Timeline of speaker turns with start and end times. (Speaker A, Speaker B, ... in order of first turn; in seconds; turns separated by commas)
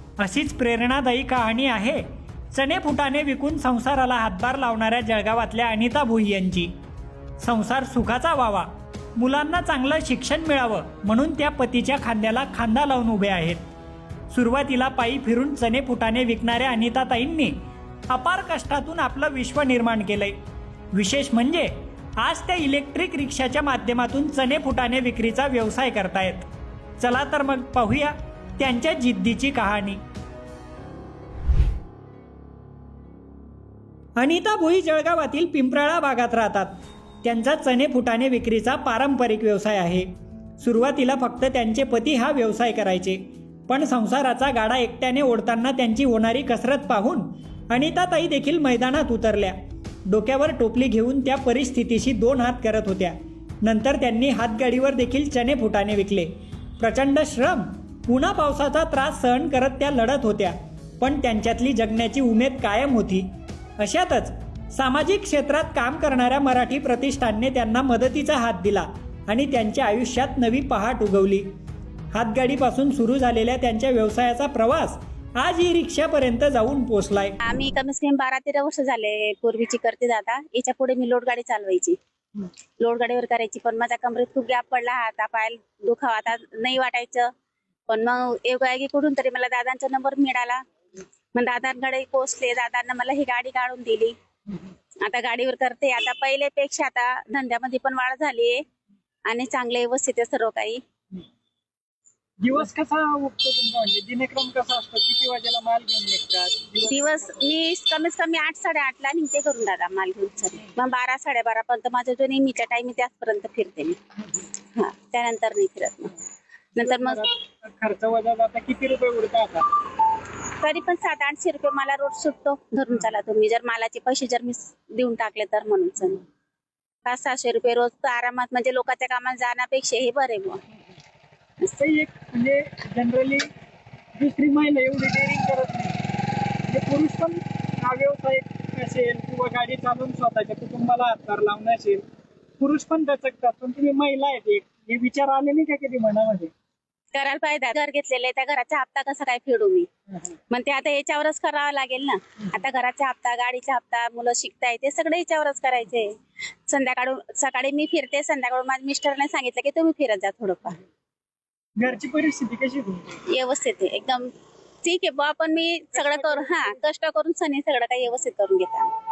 Speaker A: 0.2-6.7, Speaker A: 7.4-13.6, Speaker A: 14.3-17.6, Speaker A: 18.1-20.4, Speaker A: 20.9-26.5, Speaker A: 27.0-30.0, Speaker A: 34.2-63.3, Speaker A: 63.8-71.5, Speaker A: 72.1-77.4, Speaker B: 77.4-87.3, Speaker B: 87.9-90.6, Speaker B: 91.3-94.1, Speaker B: 95.0-98.6, Speaker B: 99.3-100.8, Speaker C: 102.4-107.5, Speaker B: 106.9-114.0, Speaker B: 114.8-116.2, Speaker B: 116.8-117.2, Speaker C: 116.8-119.7, Speaker B: 120.6-126.2, Speaker B: 127.0-130.6, Speaker C: 131.7-133.5, Speaker C: 134.2-135.9, Speaker C: 136.7-142.0, Speaker C: 142.6-146.5, Speaker B: 147.1-149.9, Speaker B: 150.5-156.1, Speaker B: 156.7-160.8, Speaker C: 161.8-163.2, Speaker B: 163.3-164.3, Speaker B: 164.8-168.9, Speaker C: 165.9-166.7